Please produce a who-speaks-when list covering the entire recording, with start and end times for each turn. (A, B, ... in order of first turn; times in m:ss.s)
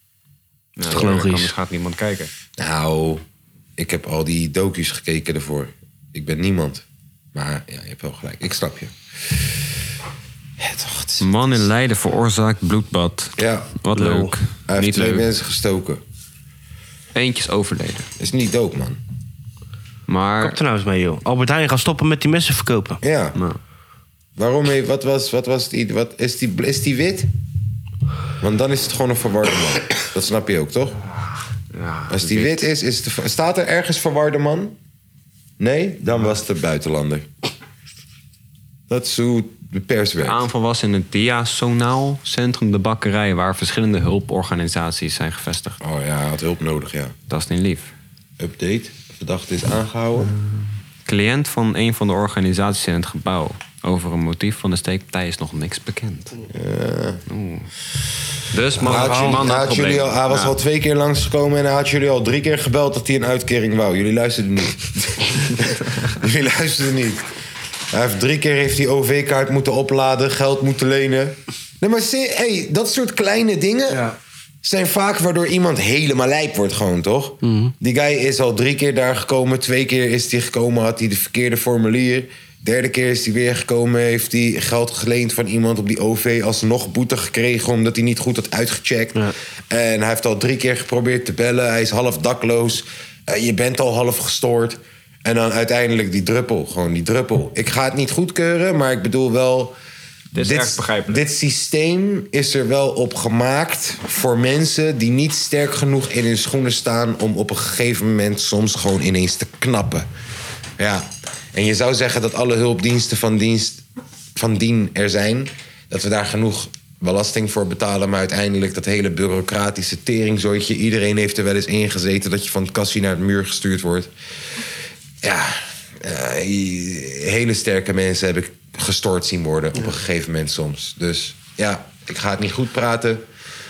0:00.8-0:02.3 A
0:00.9-0:01.5 B
0:02.6-0:03.2 C
0:03.8-0:09.6 C
0:10.6-0:11.6 C
0:11.2-0:15.3 A
0:13.4-0:13.8 C
0:14.0-0:14.3 B
0:14.7-0:16.0 C
0:17.1-0:18.1 A
0:18.2-0:19.0 C
0:20.1-0:20.6 A
0:20.4-0:23.0 B
0:23.0-0:23.4 C
0:24.4-0:27.3 C
0:28.4-0:31.0 C
0:31.7-0:32.6 A
0:32.1-0:34.8 C
0:35.6-0:37.3 C
0:38.9-0:40.4 C
0:40.2-0:45.8 A
0:45.8-0:47.2 C
0:47.3-0:47.9 A
0:48.4-0:50.3 C
0:50.3-0:56.3 A
0:56.5-0:57.2 C
0:57.3-0:57.7 A
0:58.5-1:00.5 A
0:58.8-1:07.3 C
0:58.8-0:59.4 B
1:07.9-1:14.1 C
1:13.9-1:14.2 B
1:14.6-1:39.7 C
1:17.4-1:17.7 B
1:40.3-1:41.2 A
1:40.4-1:50.1 C
1:50.8-2:04.1 C
2:05.2-2:13.2 C